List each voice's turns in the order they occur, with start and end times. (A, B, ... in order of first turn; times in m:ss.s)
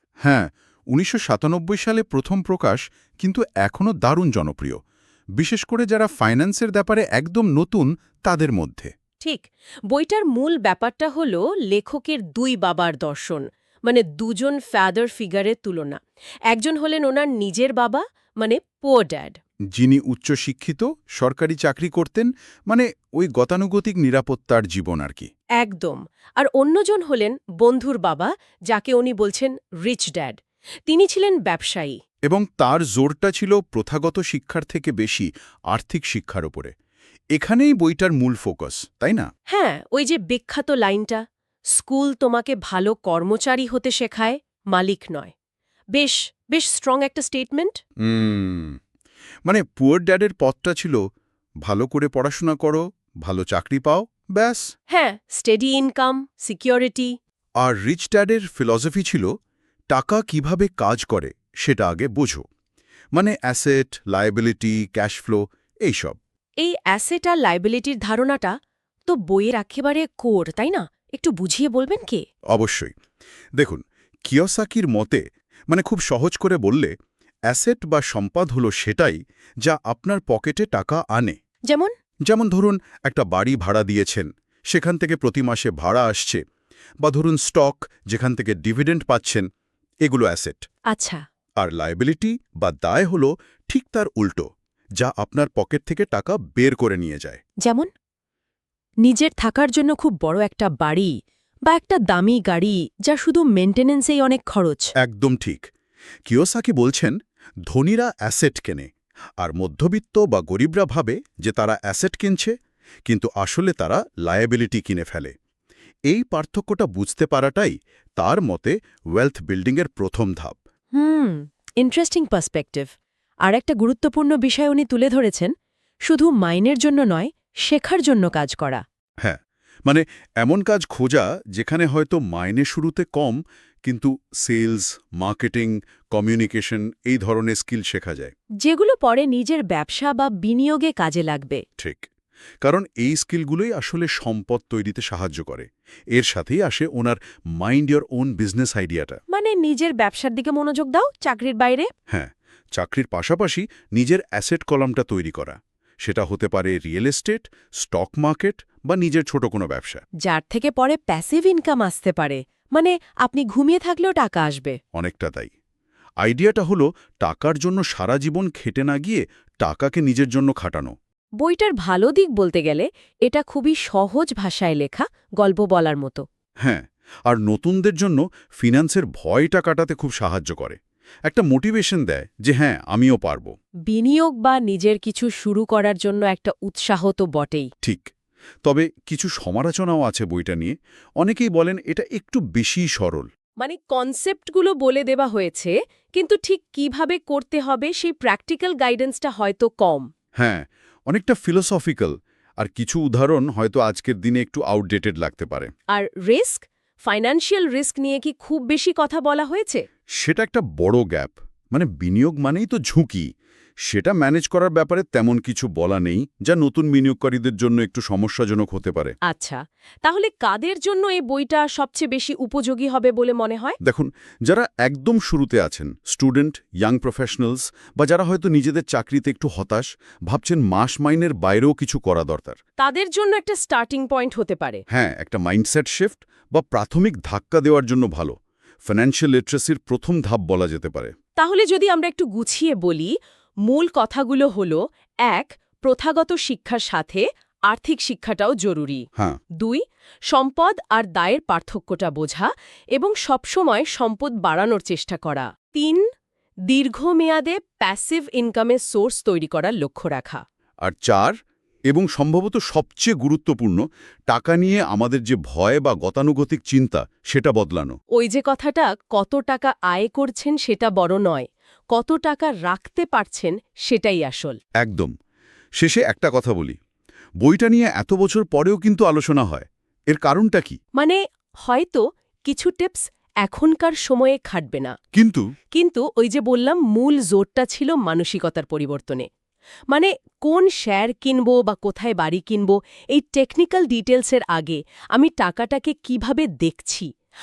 0:00.2-0:04.8 A
0:05.4-0:08.9 A
0:09.2-0:19.4 B
0:19.7-0:25.3 A
0:25.6-0:32.0 B
0:32.3-0:36.7 A
0:37.4-0:39.3 A
0:39.5-0:41.2 B
0:41.8-0:45.3 B
0:45.9-0:47.8 B
0:48.0-0:48.8 A
0:49.4-0:51.0 A
0:51.6-0:54.7 A
0:54.9-0:57.1 B
0:57.6-0:59.3 A
0:59.9-1:02.4 A
1:03.1-1:06.2 A
1:06.6-1:08.6 B
1:09.1-1:12.2 B
1:12.5-1:12.9 A
1:13.6-1:16.9 A
1:17.5-1:21.4 A
1:22.3-1:26.4 A
1:27.0-1:29.4 A
1:30.0-1:30.6 A
1:30.9-1:31.2 B
1:31.6-1:34.5 A
1:35.0-1:37.4 A
1:37.6-1:37.9 B
1:39.0-1:41.1 B
1:41.7-1:44.9 B
1:45.0-1:45.7 A
1:46.3-1:47.2 A
1:47.7-1:48.9 A
1:49.4-1:52.5 A
1:53.1-1:55.3 A
1:56.1-2:00.6 A
2:01.0-2:02.9 B
2:03.4-2:05.5 B
2:06.1-2:08.8 B
2:09.2-2:18.3 A
2:18.6-2:21.6 B
2:21.8-2:22.1 A
2:22.6-2:29.2 A
2:29.3-2:31.9 B
2:32.1-2:40.0 A
2:40.2-2:44.8 B
2:45.0-2:45.5 A
2:46.2-2:50.9 A
2:51.4-2:56.2 B
2:56.6-3:03.5 A
3:03.9-3:07.7 B
3:07.8-3:08.1 A
3:08.6-3:13.3 A
3:13.6-3:20.1 B
3:20.4-3:25.7 A
3:25.9-3:29.8 B
3:30.2-3:33.3 A
3:33.9-3:39.2 A
3:39.3-3:43.8 B
3:43.8-3:52.6 A
3:52.8-3:54.8 B
3:54.9-3:58.4 A
3:58.9-4:01.1 A
4:01.4-4:03.1 B
4:03.7-4:09.0 B
4:09.6-4:16.1 B
4:16.7-4:20.4 B
4:20.8-4:21.3 A
4:21.9-4:28.0 A
4:28.2-4:34.6 B
4:34.8-4:35.1 A
4:35.8-4:36.8 A
4:37.4-4:40.8 A
4:41.0-4:44.9 B
4:45.2-4:45.4 A
4:45.7-4:49.3 B
4:49.9-4:57.1 B